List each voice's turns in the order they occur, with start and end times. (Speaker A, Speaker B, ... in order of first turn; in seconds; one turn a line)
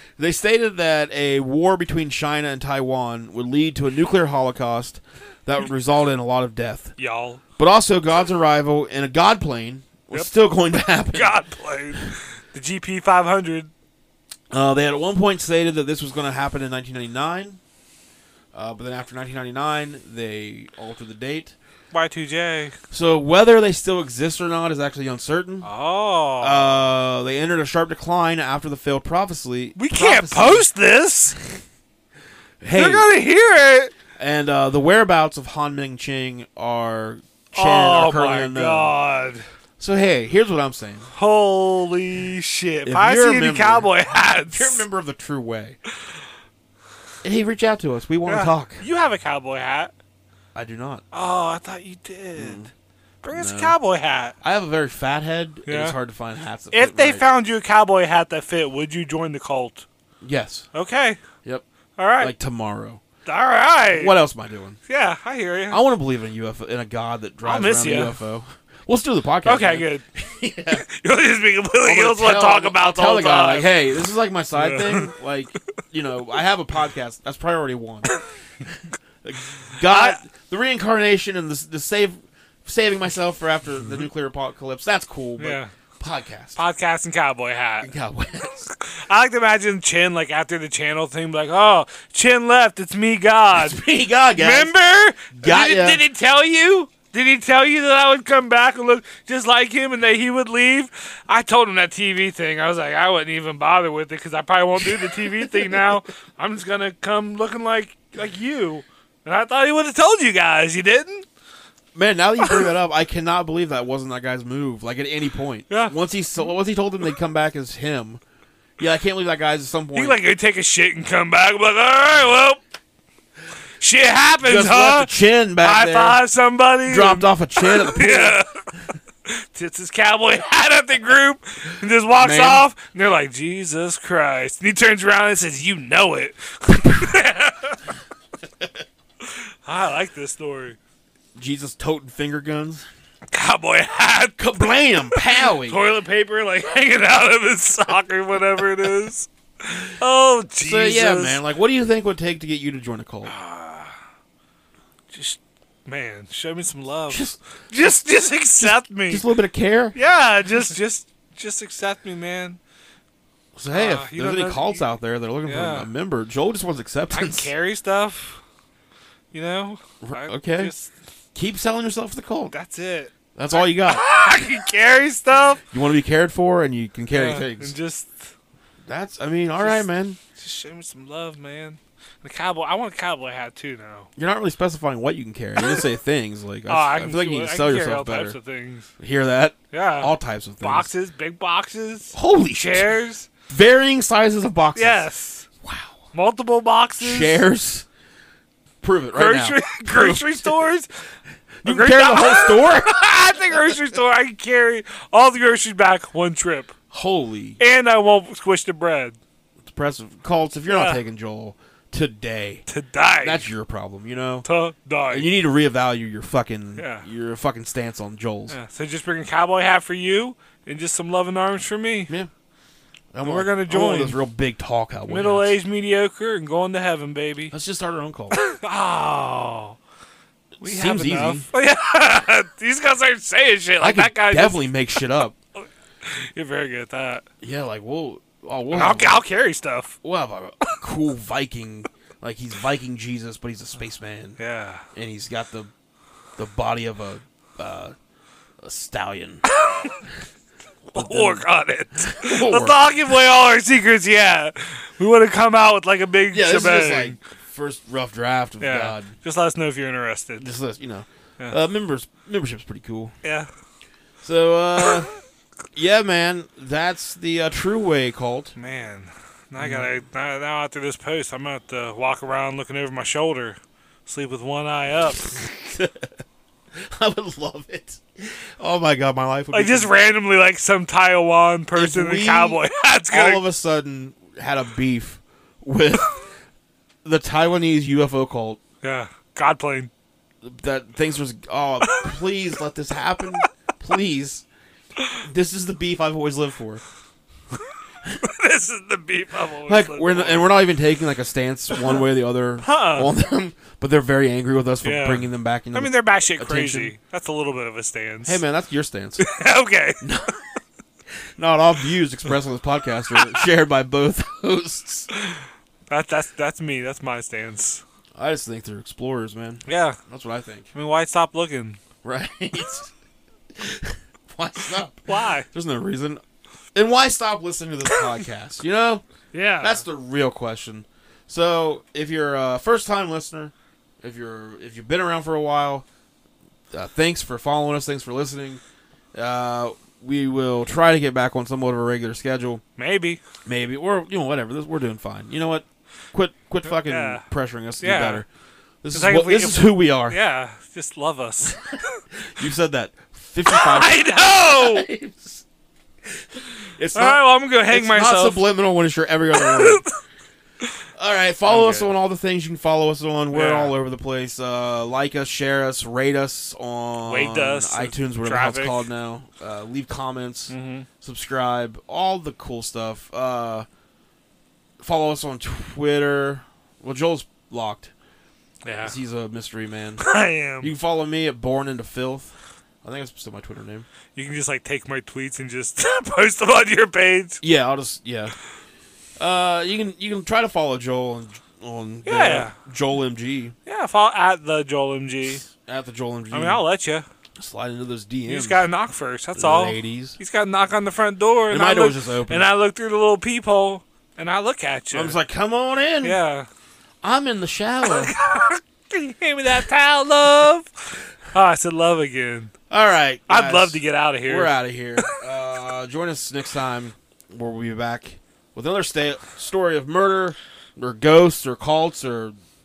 Speaker A: 0.2-7.0
Speaker B: 7.0-7.4
Speaker A: 7.6-11.4
Speaker B: 11.1-13.7
Speaker A: 14.5-17.6
Speaker A: 18.5-21.6
Speaker B: 21.9-22.8
Speaker A: 22.9-25.7
Speaker B: 25.6-27.0
Speaker A: 26.4-30.7
Speaker B: 29.8-31.4
Speaker A: 32.6-33.1
Speaker B: 32.7-33.9
Speaker A: 34.2-38.9
Speaker B: 37.5-39.5
Speaker A: 39.8-41.1
Speaker B: 41.1-44.8
Speaker A: 42.9-43.9
Speaker A: 44.5-45.8
Speaker A: 47.2-48.9
Speaker B: 48.3-49.9
Speaker A: 50.5-51.0
Speaker B: 51.1-52.6
Speaker A: 52.4-52.7
Speaker B: 53.2-54.4
Speaker A: 53.3-53.8
Speaker A: 54.4-57.2
Speaker B: 55.7-56.0
Speaker B: 56.7-59.9
Speaker A: 60.2-60.7
Speaker B: 60.7-61.2
Speaker B: 62.0-62.3
Speaker A: 62.2-63.0
Speaker B: 63.2-64.2
Speaker A: 63.9-64.8
Speaker B: 64.9-65.8
Speaker A: 65.7-70.9
Speaker B: 67.4-68.2
Speaker B: 69.5-70.0
Speaker B: 70.7-73.8
Speaker A: 71.8-78.1
Speaker B: 74.6-75.1
Speaker A: 79.2-86.6
Speaker B: 79.8-80.2
Speaker B: 85.4-85.7
Speaker B: 86.6-87.9
Speaker A: 87.8-88.7
Speaker B: 88.7-93.8
Speaker A: 93.5-94.7
Speaker B: 94.3-111.3
Speaker A: 95.3-96.0
Speaker A: 112.0-118.2
Speaker A: 118.8-120.2
Speaker B: 119.9-122.6
Speaker B: 123.8-128.7
Speaker A: 124.4-126.3
Speaker A: 126.8-128.4
Speaker B: 129.2-137.9
Speaker A: 132.2-132.7
Speaker B: 139.2-140.8
Speaker A: 141.4-142.9
Speaker B: 143.3-151.4
Speaker A: 144.4-145.8
Speaker A: 150.6-153.3
Speaker B: 153.3-154.0
Speaker B: 155.1-159.2
Speaker A: 157.1-157.4
Speaker A: 158.6-160.0
Speaker B: 159.9-162.6
Speaker A: 163.6-167.5
Speaker B: 163.7-164.9
Speaker B: 165.4-165.9
Speaker B: 167.1-168.4
Speaker B: 169.3-170.9
Speaker A: 170.0-170.7
Speaker A: 171.3-172.5
Speaker B: 172.5-175.6
Speaker A: 173.4-174.1
Speaker A: 175.7-177.8
Speaker B: 177.1-178.3
Speaker A: 178.9-180.2
Speaker B: 179.6-184.1
Speaker A: 184.2-188.4
Speaker B: 186.7-188.9
Speaker A: 189.0-190.9
Speaker B: 189.7-193.3
Speaker A: 192.1-192.9
Speaker A: 193.5-195.1
Speaker B: 194.8-195.5
Speaker A: 195.6-196.0
Speaker B: 196.1-197.4
Speaker A: 197.0-197.9
Speaker A: 198.8-200.6
Speaker B: 199.1-200.9
Speaker A: 201.6-203.1
Speaker B: 201.7-206.7
Speaker A: 206.9-207.6
Speaker B: 207.6-209.2
Speaker A: 209.7-212.6
Speaker B: 210.7-211.0
Speaker B: 212.7-213.4
Speaker A: 213.2-214.5
Speaker B: 214.4-215.3
Speaker A: 215.1-218.6
Speaker B: 216.8-217.1
Speaker B: 218.5-222.1
Speaker A: 223.1-225.6
Speaker B: 223.2-224.2
Speaker B: 225.1-227.5
Speaker A: 227.5-228.4
Speaker B: 228.3-229.8
Speaker A: 230.6-231.5
Speaker B: 230.6-235.0
Speaker A: 233.8-235.4
Speaker B: 235.6-237.3
Speaker A: 237.4-239.2
Speaker B: 238.7-239.9
Speaker A: 240.0-244.4
Speaker B: 244.4-244.8
Speaker A: 244.9-245.7
Speaker A: 246.4-247.9
Speaker A: 248.6-249.4
Speaker B: 249.5-250.0
Speaker B: 250.9-257.2
Speaker A: 250.9-252.8
Speaker A: 256.3-259.1
Speaker B: 258.6-260.5
Speaker A: 260.4-263.1
Speaker B: 263.2-263.5
Speaker A: 264.2-265.1
Speaker A: 265.7-268.6
Speaker B: 268.6-275.3
Speaker A: 269.6-269.9
Speaker A: 275.4-276.1
Speaker A: 276.8-279.9
Speaker B: 279.5-283.4
Speaker A: 281.8-286.3
Speaker A: 287.0-288.6
Speaker B: 288.8-289.9
Speaker A: 290.4-294.4
Speaker A: 295.2-296.8
Speaker B: 298.2-300.6
Speaker A: 299.7-306.9
Speaker B: 302.6-303.1
Speaker B: 304.8-308.4
Speaker A: 308.2-309.3
Speaker B: 309.2-310.0
Speaker A: 310.0-310.4
Speaker A: 311.4-315.1
Speaker B: 313.1-313.4
Speaker B: 315.1-317.8
Speaker A: 318.2-320.7
Speaker B: 319.7-320.0
Speaker B: 320.7-321.8
Speaker A: 322.0-322.9
Speaker A: 323.6-326.2
Speaker B: 325.1-325.5
Speaker A: 326.8-329.0
Speaker B: 329.3-329.8
Speaker A: 329.6-335.9
Speaker A: 336.7-338.6
Speaker A: 339.1-342.6
Speaker B: 342.8-343.2
Speaker A: 343.5-348.3
Speaker B: 346.8-347.2
Speaker B: 347.8-348.2
Speaker A: 348.8-350.2
Speaker B: 348.9-352.0
Speaker A: 352.3-355.4
Speaker B: 353.5-354.9
Speaker A: 356.8-359.9
Speaker B: 356.9-358.4
Speaker B: 359.4-360.0
Speaker A: 361.0-373.7
Speaker B: 361.5-361.9
Speaker B: 363.3-363.8
Speaker B: 367.1-368.8
Speaker B: 370.5-370.9
Speaker A: 374.8-377.9
Speaker B: 378.6-378.9
Speaker A: 378.8-380.1
Speaker B: 380.0-380.7
Speaker A: 380.6-383.9
Speaker B: 384.1-387.4
Speaker A: 387.4-388.4
Speaker A: 389.2-393.6
Speaker B: 392.1-392.5
Speaker B: 393.7-395.5
Speaker A: 395.6-396.6
Speaker B: 396.3-397.1
Speaker A: 397.4-398.7
Speaker B: 398.3-405.2
Speaker A: 399.4-400.2
Speaker A: 401.5-402.5
Speaker A: 404.9-406.2
Speaker B: 406.0-406.5
Speaker A: 407.0-408.1
Speaker B: 407.9-412.5
Speaker A: 412.7-422.4
Speaker B: 413.3-415.2